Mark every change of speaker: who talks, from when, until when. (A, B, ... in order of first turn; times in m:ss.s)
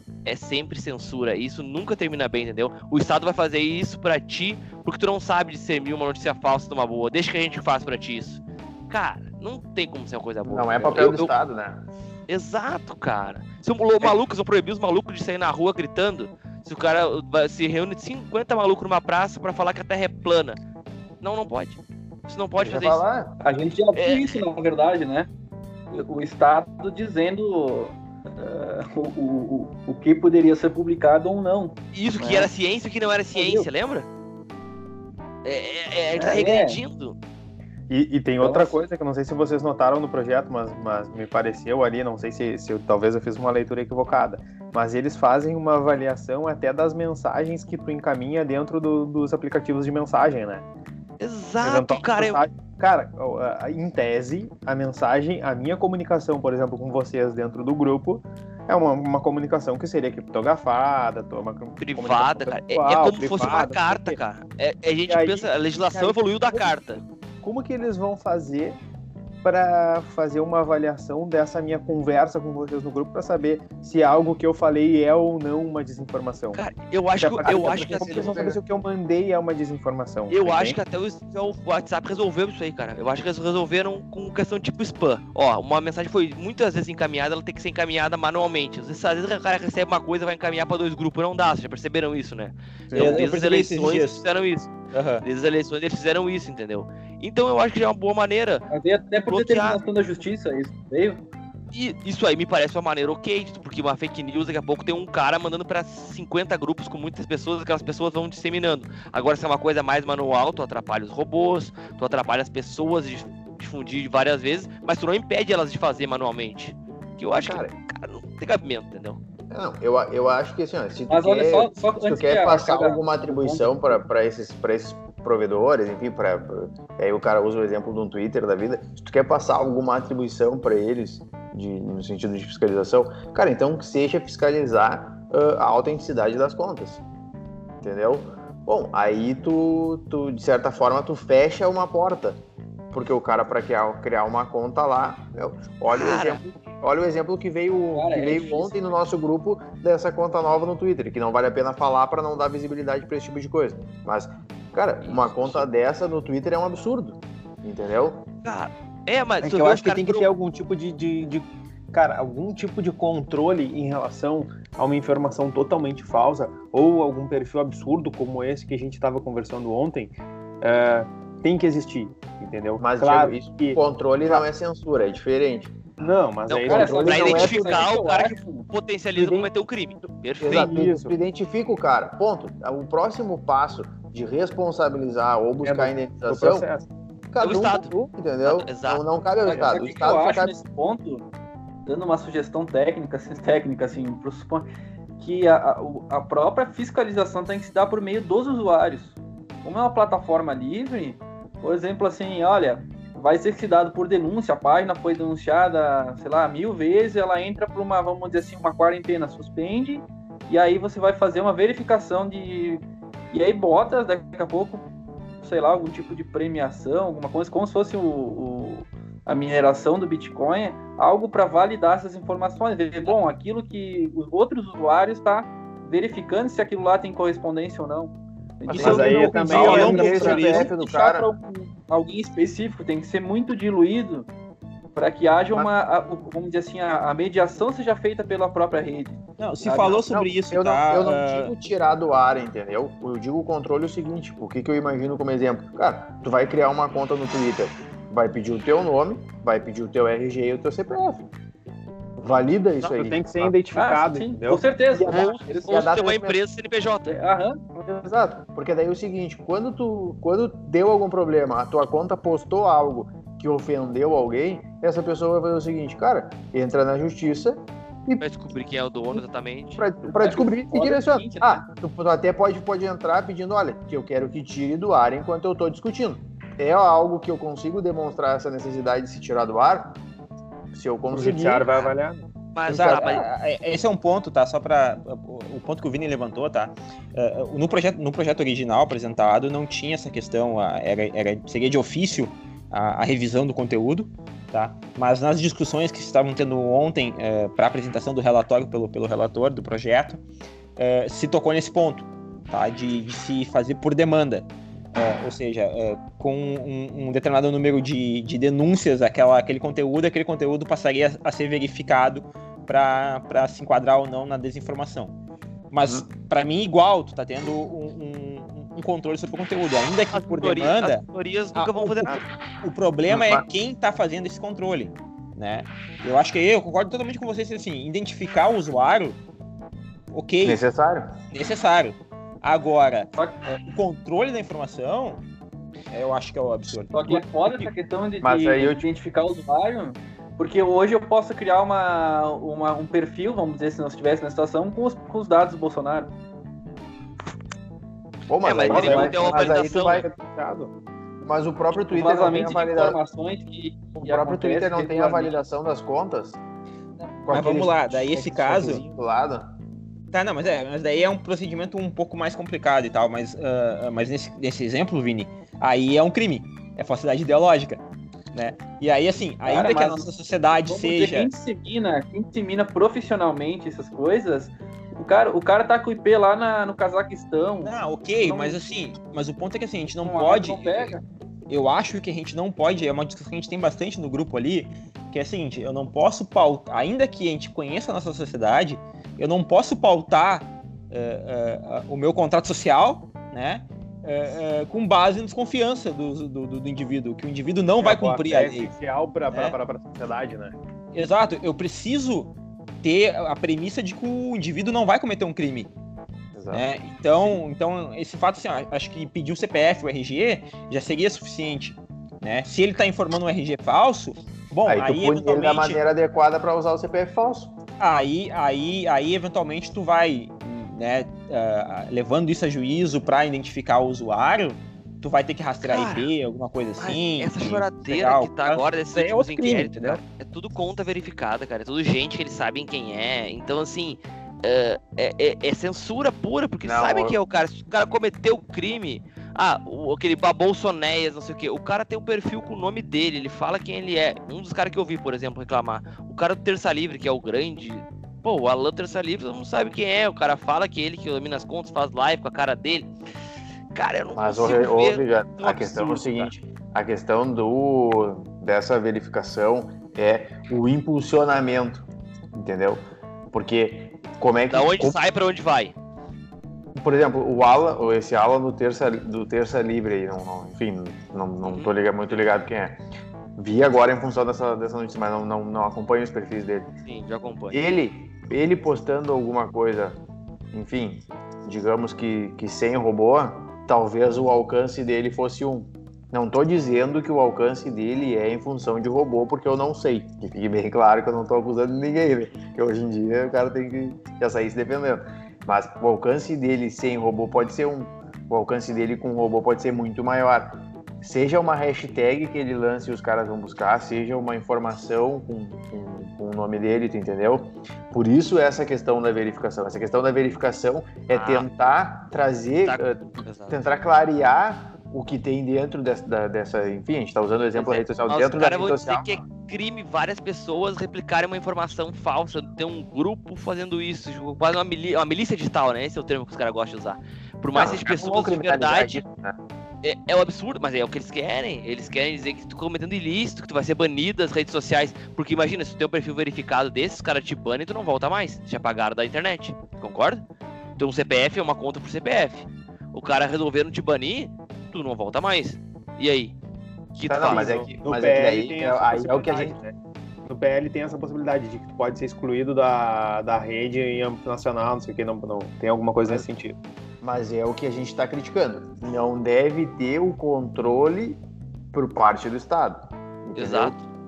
0:00.2-0:11.3 A
0:10.4-0:11.8 B
0:12.3-0:20.6 A
0:21.2-0:23.0 A
0:22.6-0:23.3 B
0:23.4-0:25.3 C
0:24.0-0:24.4 A
0:25.9-0:32.5 C
0:31.9-0:34.1 A
0:33.4-0:33.7 C
0:35.4-0:37.2 A
0:36.2-0:36.8 C
0:37.9-0:50.6 D
0:38.4-0:38.8 C
0:51.2-0:52.4 A
0:51.6-1:04.2 D
1:01.8-1:07.0 A
1:05.0-1:06.8 D
1:07.4-1:08.8 D
1:09.4-1:16.6 D
1:16.5-1:18.4 A
1:17.2-1:20.8 D
1:17.4-1:18.6 B
1:20.3-1:38.7 A
1:32.9-1:34.2 E
1:34.9-1:35.2 E
1:38.7-1:41.2 C
1:39.3-1:39.8 A
1:41.7-1:59.2 A
1:57.3-1:57.7 B
1:59.5-2:17.0 B
2:01.1-2:04.0 C
2:17.8-2:22.4 B
2:22.9-2:38.2 B
2:25.9-2:26.4 A
2:27.9-2:28.9 C
2:38.4-2:40.3 A
2:39.4-2:54.5 D
2:52.8-2:56.1 B
2:56.0-2:57.6 D
2:56.5-3:00.7 A
2:56.6-2:57.8 B
2:56.7-2:58.7 C
2:59.2-2:59.5 D
3:00.4-3:06.7 B
3:00.4-3:01.2 D
3:05.6-3:06.8 D
3:07.3-3:10.5 B
3:07.4-3:09.0 A
3:09.4-3:11.3 C
3:11.8-3:14.7 C
3:15.2-3:34.8 C
3:35.4-3:54.3 C
3:48.7-3:51.3 B
3:48.8-3:50.2 D
3:48.8-3:50.7 E
3:54.9-4:00.0 C
3:59.4-4:01.5 E
3:59.9-4:11.3 B
4:12.2-4:13.6 B
4:12.8-4:14.7 D
4:13.7-4:15.9 C
4:14.9-4:16.4 B
4:15.0-4:17.1 A
4:17.0-4:17.6 C
4:17.8-4:28.2 B
4:28.2-4:29.8 A
4:29.7-4:40.0 B
4:30.1-4:31.6 C
4:40.7-4:41.8 B
4:41.1-4:42.2 D
4:42.5-4:43.2 A
4:42.7-5:00.2 E
4:42.7-4:43.2 B
5:00.8-5:15.1 E
5:15.7-5:29.2 E
5:20.1-5:22.1 A
5:23.1-5:23.4 B
5:30.1-5:30.6 E
5:30.4-5:31.1 B
5:31.3-5:35.2 E
5:33.1-5:33.5 C
5:35.9-5:37.7 E
5:36.9-5:46.1 C
5:38.2-5:38.8 B
5:48.3-5:50.1 B
5:48.4-5:50.0 A
5:48.6-5:50.7 D
5:51.2-5:53.0 B
5:51.7-5:55.4 C
5:54.0-5:56.4 B
5:57.2-5:59.5 B
5:57.3-5:58.8 E
6:00.1-6:11.3 E
6:09.4-6:10.1 C
6:10.7-6:17.8 C
6:17.6-6:20.9 E
6:18.2-6:18.5 D
6:20.0-6:21.0 C
6:21.5-6:38.7 E
6:37.8-6:40.6 D
6:39.3-6:39.6 E
6:40.9-6:45.7 E
6:46.3-6:47.4 B
6:46.5-6:55.8 E
6:54.6-6:57.5 B
6:57.8-7:10.0 E
7:05.6-7:06.1 A
7:06.8-7:32.9 A
7:16.6-7:17.2 B
7:33.7-7:36.3 A
7:34.2-7:45.0 B
7:44.5-7:45.7 A
7:46.8-7:52.8 B
7:51.4-7:51.7 A
7:53.4-7:56.7 B
7:56.8-7:57.6 A
7:57.5-8:00.0 B
8:00.5-8:39.2 B
8:31.1-8:31.5 A
8:32.6-8:33.6 A
8:37.5-8:49.0 A
8:47.5-8:49.4 B
8:49.8-9:00.2 A
9:00.8-9:06.3 A
9:07.0-9:07.5 A
9:07.1-9:09.6 B
9:07.2-9:16.6 D
9:17.0-9:21.2 B
9:21.7-9:23.7 B
9:23.4-9:23.8 A